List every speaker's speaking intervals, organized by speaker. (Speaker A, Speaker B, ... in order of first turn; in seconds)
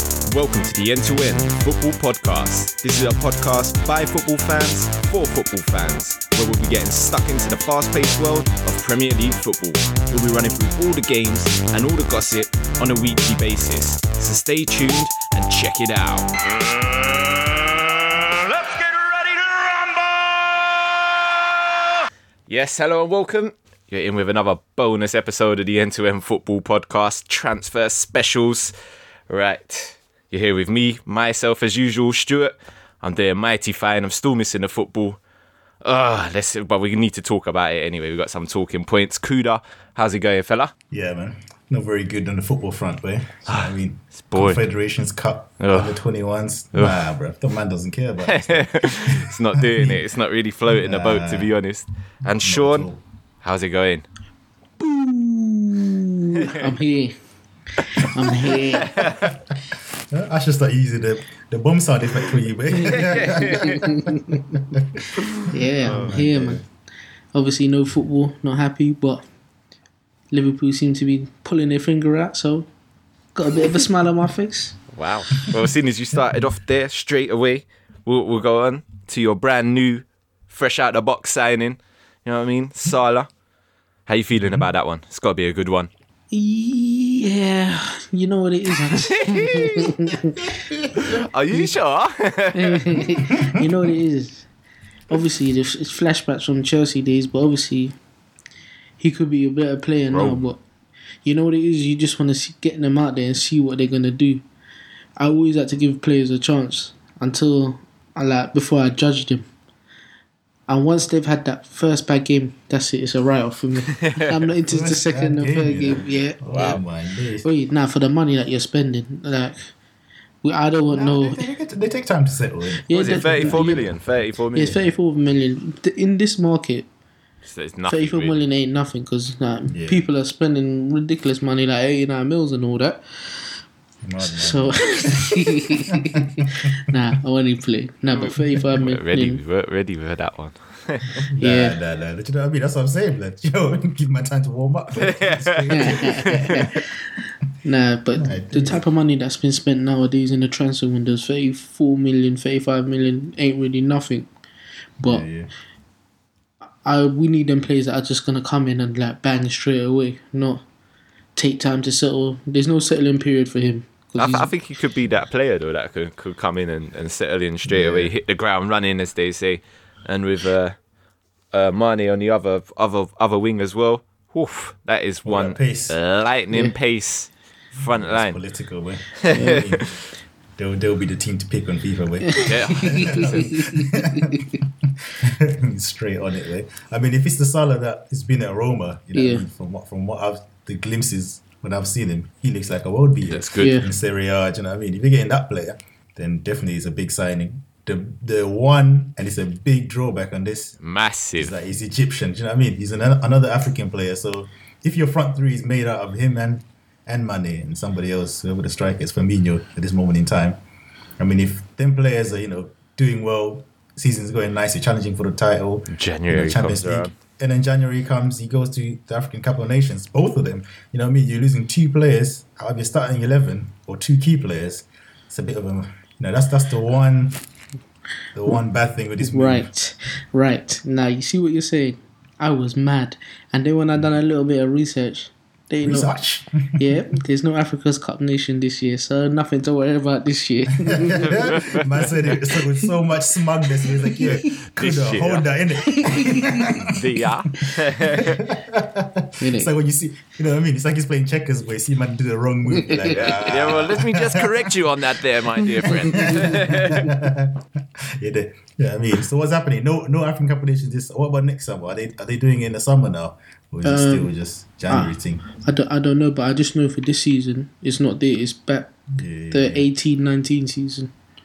Speaker A: 0.3-17.4, 18.1-20.5, 22.5-28.7, 29.3-35.2, 35.8-40.7, 43.5-44.6, 45.6-46.0, 46.7-47.0, 48.2-52.9, 53.4-54.1, 58.2-59.3, 63.0-63.8, 65.8-66.2, 74.9-83.3, 84.1-85.9, 89.1-89.9, 91.0-93.1, 100.1-100.5, 114.0-114.3, 122.9-124.8, 127.5-128.4, 138.1-141.1, 145.0-146.5, 164.2-170.8, 171.5-178.4, 179.2-179.9, 182.4-183.6, 193.3-193.8, 200.8-201.5, 215.9-217.1, 241.2-241.8, 244.7-245.5, 246.8-248.4, 253.1-257.1
Speaker B: 40.9-50.0, 50.7-51.5, 52.3-53.0, 59.1-59.6, 60.1-65.0, 65.8-66.6, 84.3-84.7, 93.2-93.7, 114.7-117.5, 120.9-123.9, 129.7-130.0, 134.0-137.0, 141.2-146.8, 148.1-148.9, 155.0-155.5, 167.6-168.1, 175.2-176.0, 177.8-179.9, 180.6-200.8, 201.3-210.6, 211.2-227.4, 228.3-229.7, 235.8-237.0, 240.8-246.9, 248.0-254.8, 255.9-265.4, 269.1-269.9
Speaker C: 54.8-57.2, 57.8-59.1, 62.8-64.5, 65.5-66.7, 67.3-69.2, 70.3-72.7, 73.3-74.8, 86.3-90.5, 92.5-94.5, 95.1-98.0, 99.0-100.6, 101.2-104.4, 105.2-109.5, 110.7-116.8, 117.4-119.7, 120.4-121.4, 122.9-123.9, 124.5-126.9, 127.9-133.5, 134.2-139.4, 141.4-141.8, 145.7-147.0, 147.6-154.3, 155.0-155.3, 156.8-160.6, 161.3-164.5, 179.3-179.6, 182.3-184.5, 189.1-189.4, 193.6-193.9, 229.2-236.2, 236.8-242.9, 243.8-244.5, 245.9-246.8, 249.4-249.7, 252.7-253.4, 256.0-256.7, 263.8-264.3, 264.9-271.1